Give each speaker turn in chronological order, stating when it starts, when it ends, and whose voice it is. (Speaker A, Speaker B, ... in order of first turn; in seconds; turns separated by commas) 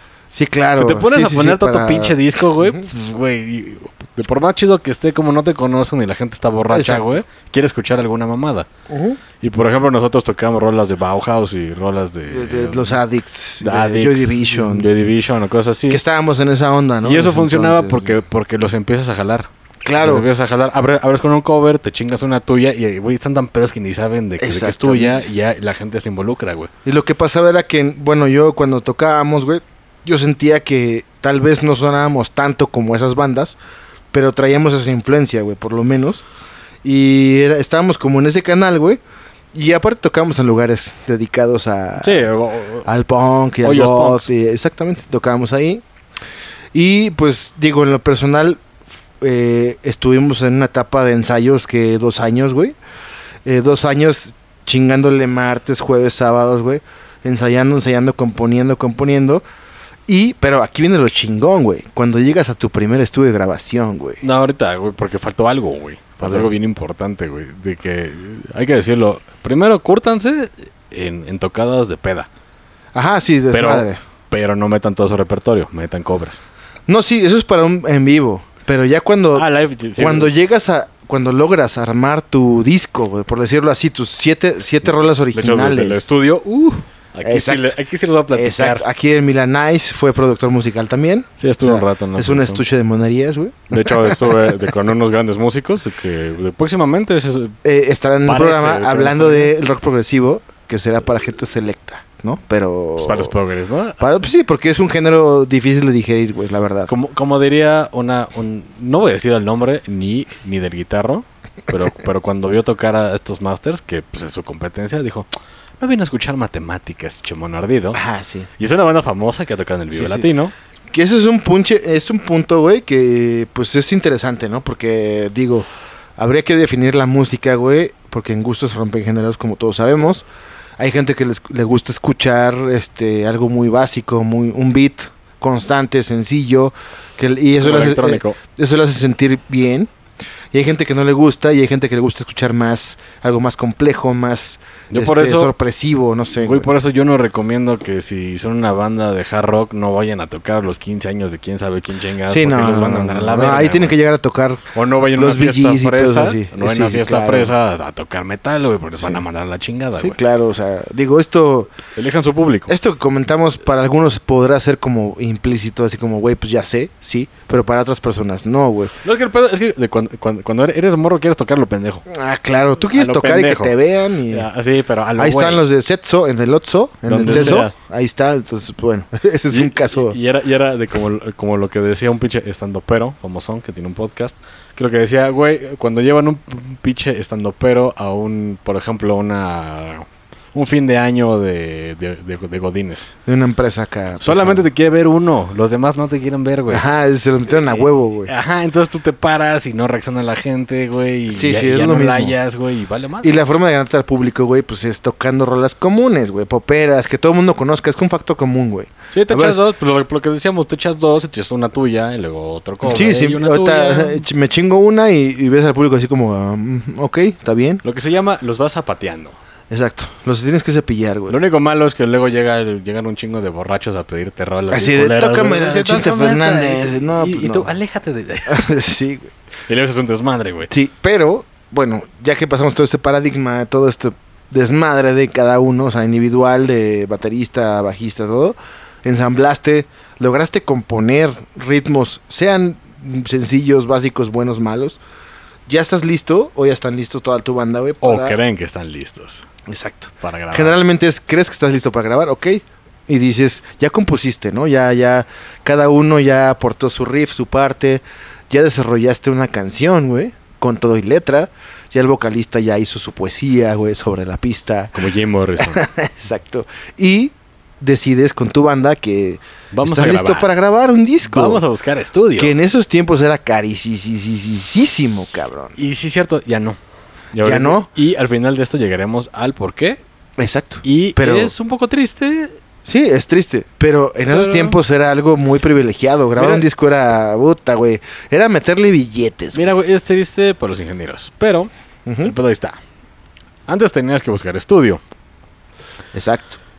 Speaker A: 0.3-2.9, Speaker B: 0.8-8.7, Speaker A: 6.7-7.2, Speaker A: 8.9-9.2, Speaker B: 9.4-13.0, Speaker A: 12.3-14.9, Speaker B: 13.6-16.0, Speaker A: 15.9-18.2, Speaker B: 17.0-26.7, Speaker A: 19.9-20.3, Speaker A: 24.4-25.3, Speaker A: 26.9-33.6, Speaker A: 34.1-36.2, Speaker A: 36.8-39.0, Speaker A: 39.5-42.3, Speaker B: 42.0-42.9, Speaker A: 42.9-45.8, Speaker B: 43.6-44.3, Speaker A: 46.7-48.6, Speaker A: 49.2-52.8, Speaker A: 53.5-59.4, Speaker A: 60.1-64.2, Speaker B: 64.2-72.3, Speaker A: 66.2-66.5, Speaker A: 72.9-74.0, Speaker B: 73.5-76.4, Speaker A: 76.9-86.1, Speaker B: 79.3-80.3, Speaker B: 85.3-88.8, Speaker A: 87.2-87.8, Speaker A: 88.3-94.6, Speaker B: 91.4-92.6, Speaker B: 93.7-97.6, Speaker A: 97.6-103.3, Speaker B: 98.2-99.5, Speaker B: 103.0-104.1, Speaker A: 104.0-106.9, Speaker B: 106.9-115.3, Speaker B: 115.8-118.0, Speaker A: 117.9-118.5, Speaker B: 118.6-120.5, Speaker A: 119.9-120.3, Speaker A: 120.9-130.3, Speaker A: 130.8-139.9, Speaker B: 137.6-138.4, Speaker A: 140.5-146.7, Speaker B: 144.9-145.5, Speaker B: 146.4-154.0, Speaker A: 152.3-154.6, Speaker B: 154.7-160.2, Speaker A: 155.2-157.5, Speaker A: 160.0-161.7, Speaker B: 162.0-162.7, Speaker A: 162.7-168.9, Speaker B: 169.0-172.1, Speaker A: 172.1-174.5, Speaker B: 172.9-173.8, Speaker B: 174.3-175.6, Speaker A: 175.2-180.2, Speaker B: 177.1-177.7, Speaker B: 179.5-193.1, Speaker A: 193.3-194.6, Speaker B: 194.2-196.8, Speaker A: 196.7-198.3, Speaker B: 197.5-203.4, Speaker A: 201.3-202.3, Speaker A: 203.2-209.6, Speaker B: 209.1-214.2, Speaker A: 212.8-217.8, Speaker B: 217.8-219.4, Speaker A: 219.7-221.4, Speaker B: 221.3-228.7, Speaker A: 224.7-227.7, Speaker A: 228.5-229.3, Speaker B: 229.7-230.7, Speaker A: 230.7-245.0, Speaker A: 245.7-248.4, Speaker B: 248.0-249.4, Speaker A: 249.7-265.0, Speaker B: 250.2-250.8, Speaker B: 264.9-265.8, Speaker A: 265.6-271.6, Speaker B: 269.7-270.5, Speaker B: 271.2-272.6, Speaker A: 272.4-275.8, Speaker B: 275.8-276.8, Speaker B: 277.3-280.0, Speaker A: 277.4-277.9, Speaker A: 280.4-281.5, Speaker B: 280.8-282.6, Speaker A: 282.9-289.7, Speaker B: 284.3-284.8, Speaker B: 286.4-286.6, Speaker B: 289.5-291.7, Speaker A: 292.1-292.3, Speaker B: 292.2-292.8, Speaker B: 293.7-295.0, Speaker A: 296.1-296.6